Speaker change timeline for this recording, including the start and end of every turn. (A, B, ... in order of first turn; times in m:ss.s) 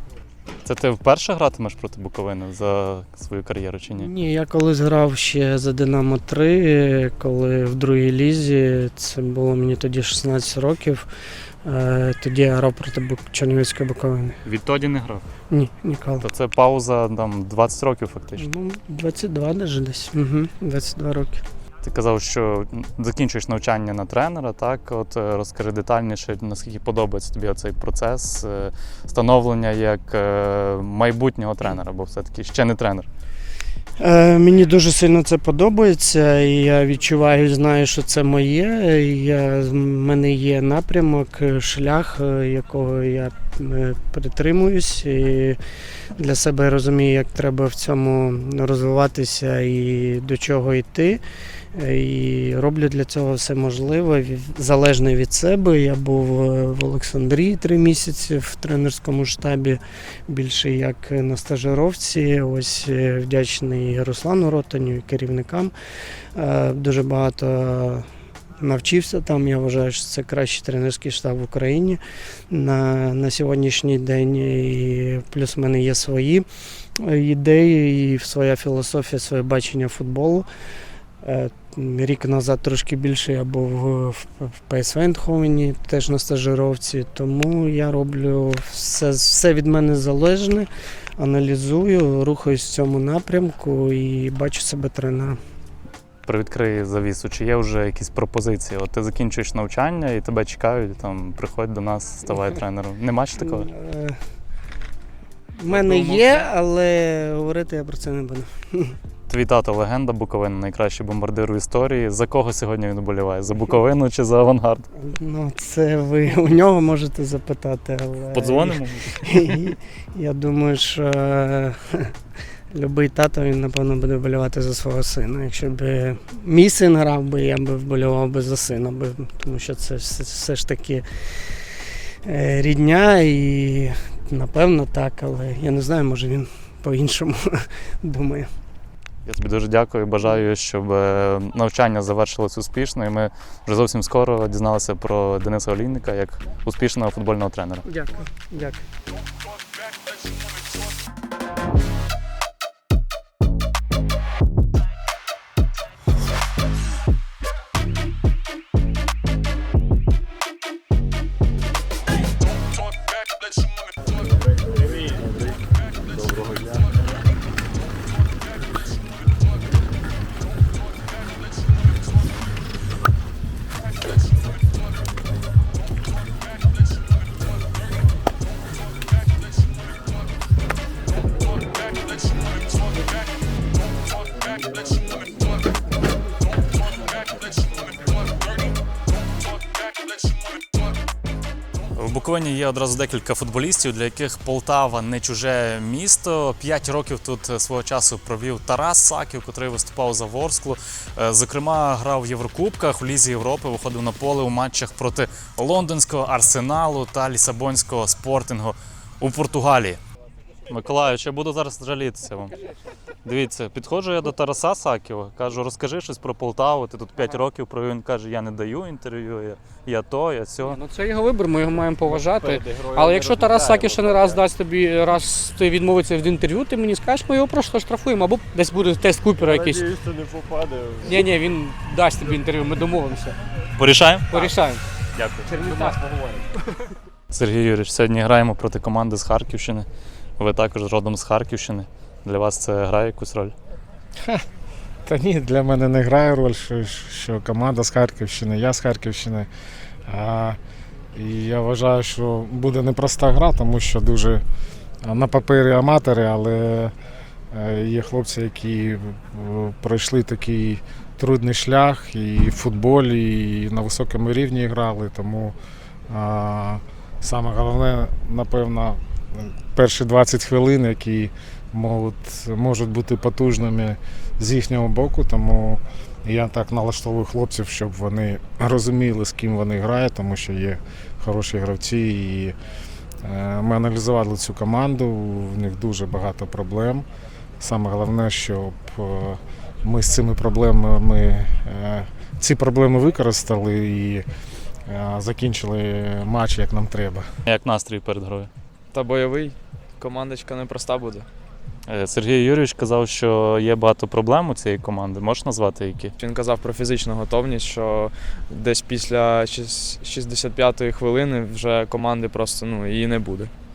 0:00.6-0:04.1 A
0:04.0-0:11.1 B
0:11.6-0:14.4 B
0:14.4-0:15.3 A
0:15.5-0:16.2 B
0:16.2-0:18.5 A
0:18.4-0:21.4 B
0:21.8-0:33.1 A
0:34.0-0:45.6 B
0:46.2-0:51.2 B
0:51.7-1:05.7 B
1:06.4-1:08.1 B
1:08.6-1:16.5 B
1:17.0-1:20.5 B
1:21.2-1:35.4 B
1:36.3-1:43.7 A
1:43.4-1:44.2 B
1:45.6-1:49.0 B
1:49.3-1:54.9 A
1:55.0-2:02.1 B
1:58.3-1:59.6 A
2:02.7-2:11.6 B
2:12.2-2:18.5 B
2:19.3-2:27.8 A
2:27.9-2:28.8 B
3:12.0-3:30.0 A
3:30.7-3:32.5 A
3:33.2-3:40.8 A
3:40.7-3:50.0 C
3:51.0-3:53.4 C
3:53.8-3:54.5 A
3:54.3-3:54.8 C
3:55.2-3:55.5 A
3:55.5-3:56.0 C
3:57.3-3:59.9 A
4:00.4-4:03.6 A
4:05.1-4:09.5 D
4:10.1-4:10.6 D
4:11.1-4:14.4 D
4:15.0-4:16.9 D
4:17.5-4:25.6 D
4:26.1-4:42.6 D
4:43.2-4:47.0 D
4:47.6-4:54.3 D
4:54.9-4:57.3 D
4:57.5-4:58.5 A
4:58.9-5:01.3 E
5:01.9-5:06.1 A
5:06.2-5:13.5 E